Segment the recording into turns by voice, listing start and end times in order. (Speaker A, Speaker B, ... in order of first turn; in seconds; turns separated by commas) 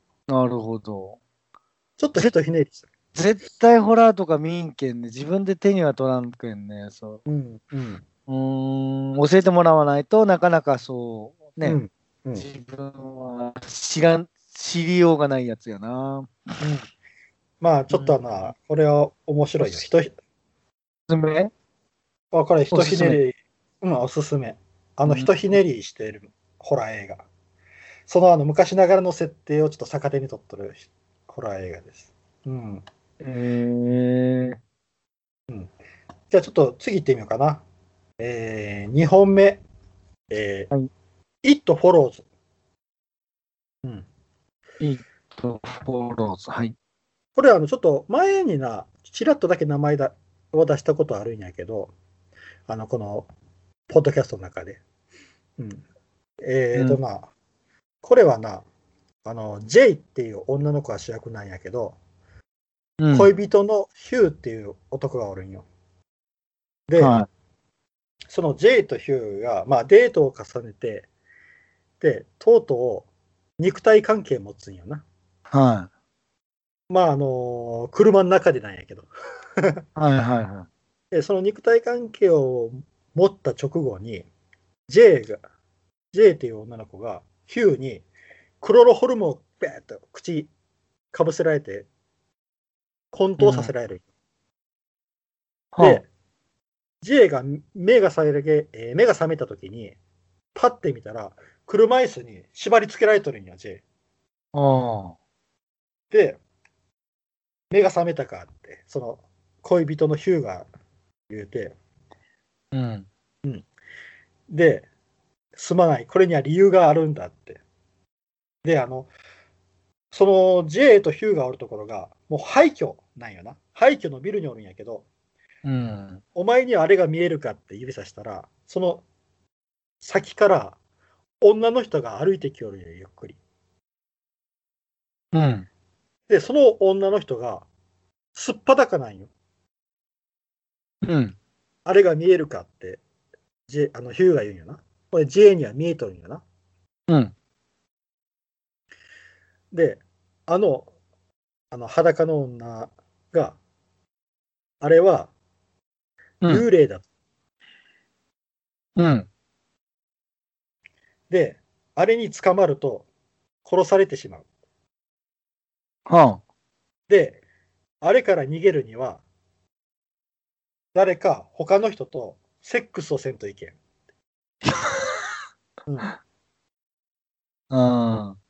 Speaker A: 0.3-1.2, Speaker B: 2.0-2.9, Speaker A: 3.1-7.2, Speaker B: 7.2-8.0, Speaker A: 8.3-11.8, Speaker B: 11.6-12.4, Speaker A: 12.3-16.3, Speaker B: 16.6-16.9, Speaker B: 17.6-20.1, Speaker A: 17.9-18.2, Speaker A: 21.1-21.5, Speaker B: 22.3-27.2, Speaker A: 22.7-23.2, Speaker A: 25.1-25.3, Speaker B: 28.1-32.8, Speaker A: 33.2-34.6, Speaker B: 36.3-37.6, Speaker B: 38.2-39.6, Speaker B: 40.3-40.7, Speaker B: 41.4-42.2, Speaker A: 44.8-46.7, Speaker B: 47.4-51.9, Speaker B: 52.7-53.3, Speaker B: 53.9-54.8, Speaker B: 55.6-55.8, Speaker B: 56.4-57.3, Speaker A: 56.7-57.0, Speaker B: 58.0-58.6, Speaker B: 59.2-62.0, Speaker A: 63.0-63.3, Speaker B: 63.1-65.6, Speaker B: 66.9-67.2, Speaker A: 67.0-67.3, Speaker B: 68.3-71.1, Speaker B: 72.0-73.1, Speaker B: 73.6-75.0, Speaker A: 75.5-75.9, Speaker B: 76.9-79.1, Speaker A: 80.0-80.7, Speaker B: 81.1-84.3, Speaker B: 84.9-85.4, Speaker B: 86.1-88.0, Speaker B: 88.6-90.5, Speaker B: 91.1-91.9, Speaker B: 93.1-94.0, Speaker A: 93.4-93.7, Speaker A: 95.7-96.0, Speaker B: 95.8-96.1, Speaker B: 97.0-100.0, Speaker B: 100.5-103.8, Speaker A: 104.5-105.2, Speaker B: 106.1-106.4, Speaker B: 107.7-110.7, Speaker B: 111.3-111.7, Speaker A: 112.7-113.1, Speaker B: 114.5-114.9, Speaker B: 115.5-117.6, Speaker B: 118.6-119.1, Speaker B: 120.1-125.0, Speaker A: 125.6-126.2, Speaker B: 126.3-129.0, Speaker B: 130.0-130.8, Speaker B: 131.4-133.4, Speaker A: 135.3-135.7, Speaker B: 136.3-137.7, Speaker B: 138.3-139.3, Speaker A: 141.0-141.3, Speaker B: 141.8-143.0, Speaker B: 143.7-146.4, Speaker A: 147.1-147.3, Speaker B: 149.7-150.9, Speaker B: 151.7-153.6, Speaker B: 154.8-155.3, Speaker B: 156.4-157.0, Speaker A: 158.9-159.3, Speaker B: 161.3-163.1, Speaker B: 163.6-164.4, Speaker A: 166.1-166.4, Speaker B: 167.1-167.4, Speaker B: 168.0-169.2, Speaker B: 170.9-173.8, Speaker A: 174.7-175.1, Speaker B: 175.9-176.1, Speaker A: 177.7-178.4